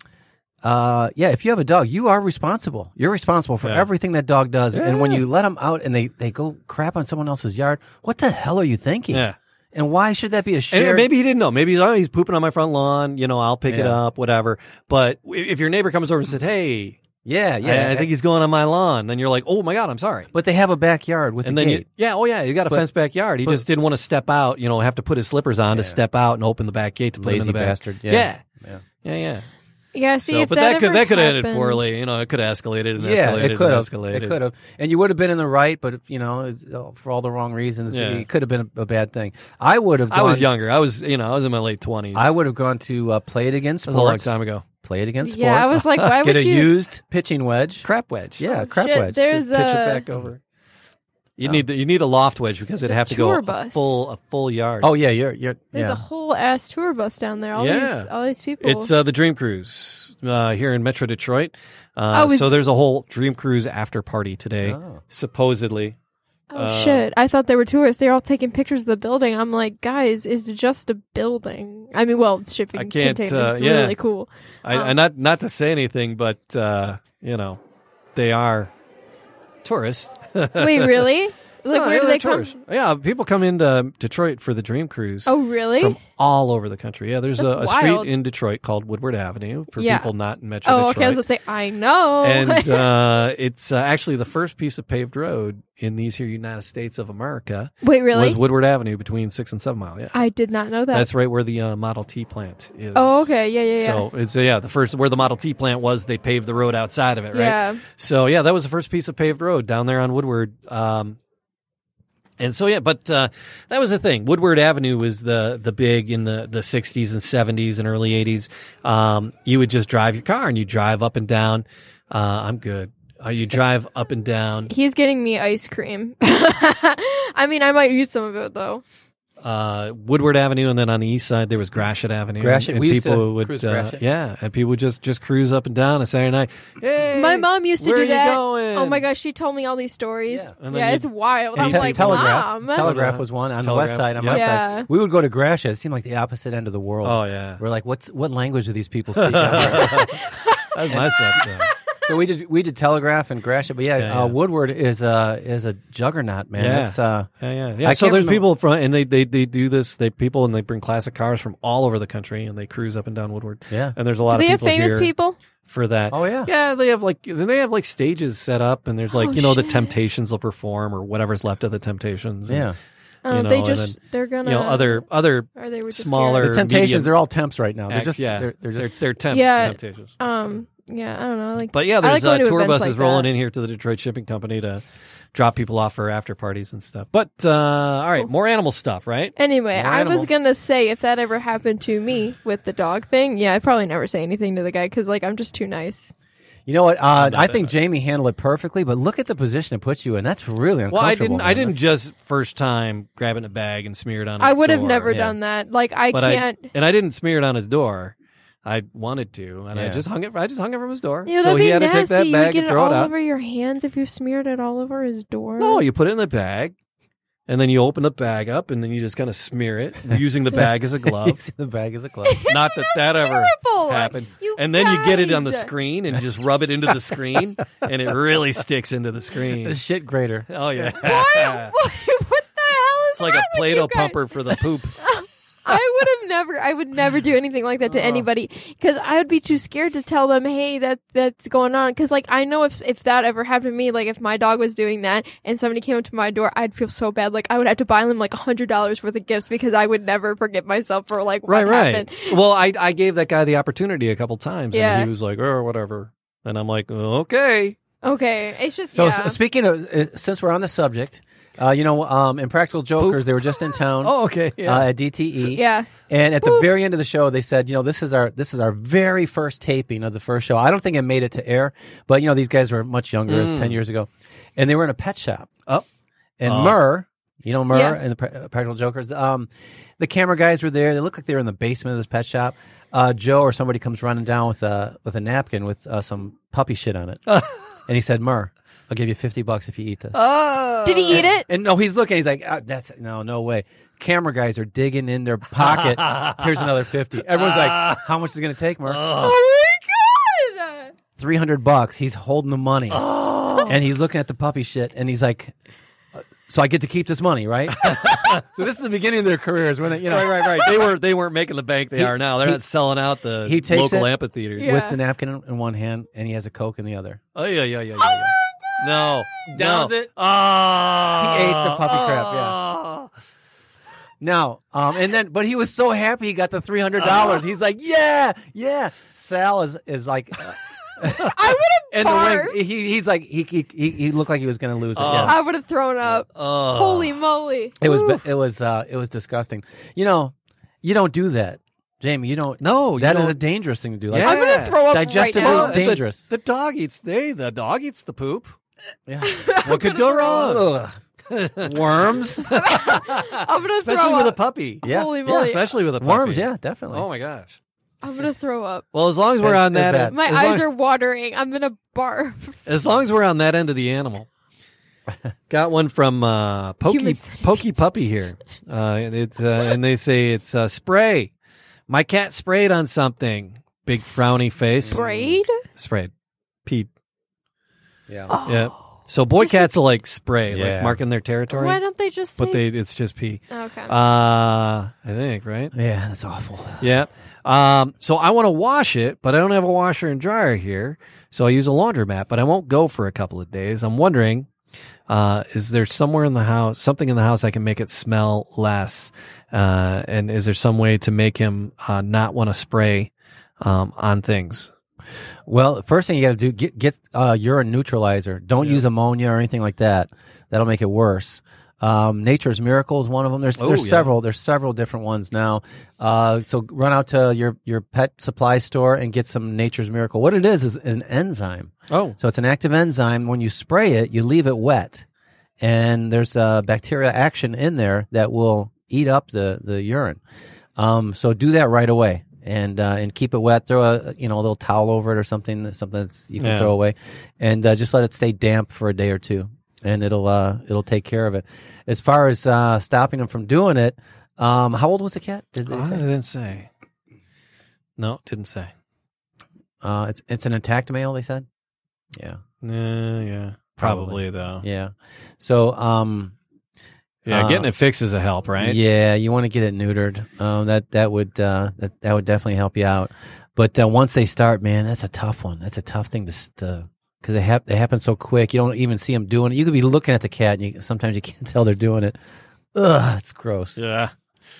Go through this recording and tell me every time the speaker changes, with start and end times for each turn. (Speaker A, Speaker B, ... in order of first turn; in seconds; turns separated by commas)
Speaker A: 0.6-11.1, Speaker B: 4.7-5.2, Speaker B: 9.1-9.3, Speaker B: 10.7-17.0, Speaker A: 13.7-14.0, Speaker A: 17.2-18.1, Speaker B: 17.6-20.3, Speaker A: 20.3-21.8, Speaker B: 21.4-28.4, Speaker A: 25.7-26.0, Speaker A: 27.2-28.8, Speaker B: 29.0-29.4, Speaker C: 29.9-31.8, Speaker B: 30.2-34.4, Speaker A: 33.0-40.5, Speaker B: 37.9-38.2, Speaker B: 40.1-42.4, Speaker A: 42.1-47.9, Speaker B: 43.9-44.6, Speaker C: 45.2-46.7, Speaker B: 45.7-46.2, Speaker B: 47.8-48.4, Speaker A: 48.4-49.2, Speaker C: 48.4-50.0, Speaker B: 49.2-50.4, Speaker B: 51.4-54.9, Speaker C: 52.8-53.9, Speaker A: 54.8-56.0, Speaker C: 55.7-58.9, Speaker B: 57.5-58.1, Speaker B: 58.6-66.0, Speaker C: 62.1-62.5, Speaker A: 64.6-65.0, Speaker C: 66.5-75.0, Speaker B: 66.5-67.1, Speaker B: 72.7-74.0, Speaker B: 74.6-77.6, Speaker B: 78.1-78.7, Speaker B: 79.6-81.1, Speaker C: 80.6-82.5, Speaker B: 81.7-91.2, Speaker C: 85.3-86.0, Speaker C: 87.4-88.1, Speaker C: 89.8-90.1, Speaker C: 90.7-92.9, Speaker B: 92.2-100.2, Speaker C: 97.8-98.4, Speaker C: 100.1-101.1, Speaker B: 100.9-111.2, Speaker C: 102.9-104.0, Speaker C: 107.3-107.8, Speaker B: 112.4-124.7, Speaker C: 124.7-128.8, Speaker B: 129.4-139.1, Speaker A: 132.4-134.0, Speaker C: 137.1-142.8, Speaker B: 140.6-144.4, Speaker A: 141.6-150.1, Speaker C: 144.3-144.9, Speaker B: 147.0-147.6, Speaker B: 149.2-150.2, Speaker C: 149.8-150.6, Speaker B: 150.7-151.7, Speaker A: 150.9-157.3, Speaker B: 154.0-154.3, Speaker B: 156.6-165.1, Speaker A: 157.8-158.4, Speaker A: 163.7-163.9, Speaker C: 164.3-165.4, Speaker B: 165.6-172.7, Speaker A: 166.1-166.5, Speaker C: 169.1-169.9, Speaker A: 172.5-172.8, Speaker C: 173.2-175.0, Speaker B: 173.3-177.1, Speaker C: 175.6-176.4, Speaker A: 176.4-179.0, Speaker B: 177.9-180.1, Speaker C: 179.3-183.3, Speaker B: 181.7-184.8, Speaker B: 185.3-189.3, Speaker C: 189.4-196.1, Speaker A: 189.7-190.3, Speaker A: 196.7-201.8, Speaker B: 197.1-197.7, Speaker B: 200.9-205.2, Speaker C: 204.4-206.7, Speaker A: 205.1-205.4, Speaker B: 206.1-213.1, Speaker A: 209.7-210.0, Speaker C: 211.2-215.8, Speaker B: 215.6-216.7, Speaker B: 217.5-221.4, Speaker A: 221.0-222.4, Speaker C: 222.2-225.7, Speaker B: 222.4-229.8, Speaker A: 229.6-230.9, Speaker B: 230.5-231.7, Speaker C: 230.9-252.4, Speaker B: 233.1-235.0, Speaker B: 238.0-238.2, Speaker B: 251.5-257.8, Speaker C: 254.7-255.1, Speaker C: 258.0-259.4, Speaker A: 258.9-275.5, Speaker B: 263.0-263.4, Speaker B: 264.0-264.9, Speaker C: 265.5-265.9, Speaker B: 273.2-273.8, Speaker A: 276.4-287.2, Speaker B: 276.4-276.8, Speaker C: 277.7-278.0, Speaker B: 287.3-287.6, Speaker A: 287.9-290.2, Speaker B: 290.1-291.2, Speaker C: 290.8-291.4, Speaker A: 291.1-299.1, Speaker B: 295.6-296.7, Speaker B: 297.3-298.1, Speaker B: 298.9-299.4, Speaker C: 299.1-300.9, Speaker A: 301.1-303.0, Speaker B: 302.9-303.8, Speaker A: 303.6-305.5, Speaker A: 306.2-310.9, Speaker B: 307.8-308.4, Speaker B: 310.1-314.8, Speaker A: 311.9-312.6, Speaker A: 313.4-317.2, Speaker C: 314.6-315.0, Speaker B: 317.3-323.1, Speaker A: 319.4-320.1, Speaker A: 321.2-322.6, Speaker A: 324.2-331.3, Speaker C: 331.1-332.6, Speaker A: 331.9-335.4, Speaker B: 334.9-335.4, Speaker C: 335.1-337.8, Speaker B: 336.0-337.2, Speaker B: 337.8-338.2, Speaker A: 337.8-346.3, Speaker B: 342.6-343.4, Speaker B: 344.1-348.5, Speaker C: 344.2-345.9, Speaker A: 349.1-351.0, Speaker C: 349.2-350.5, Speaker B: 349.5-350.7, Speaker B: 351.3-357.6, Speaker A: 351.6-352.6, Speaker C: 352.5-355.7, Speaker A: 354.8-357.1, Speaker C: 358.0-358.9, Speaker B: 358.9-360.7, Speaker A: 359.4-360.2, Speaker C: 360.1-362.6, Speaker B: 362.6-364.3, Speaker B: 365.5-371.3, Speaker C: 366.8-367.6, Speaker B: 371.9-375.1, Speaker C: 373.9-375.6, Speaker A: 374.8-375.3, Speaker B: 375.6-376.1, Speaker A: 378.1-378.3, Speaker C: 378.3-378.8, Speaker B: 378.4-381.8, Speaker C: 379.4-379.8, Speaker A: 380.5-381.0, Speaker C: 381.5-382.6, Speaker B: 382.4-385.7, Speaker C: 383.5-383.9, Speaker A: 385.7-386.9, Speaker B: 386.8-394.5, Speaker B: 395.1-404.7, Speaker A: 405.4-425.0, Speaker B: 413.6-414.1, Speaker B: 421.9-422.1, Speaker A: 425.6-430.2, Speaker A: 430.8-446.0, Speaker B: 436.4-436.7, Speaker B: 445.7-446.7, Speaker B: 448.0-448.7, Speaker A: 449.8-451.5, Speaker A: 452.1-452.4, Speaker B: 452.6-454.6, Speaker A: 453.8-456.3, Speaker B: 457.2-458.8, Speaker A: 457.3-457.7, Speaker A: 458.6-472.2, Speaker A: 472.7-473.8, Speaker B: 473.8-474.1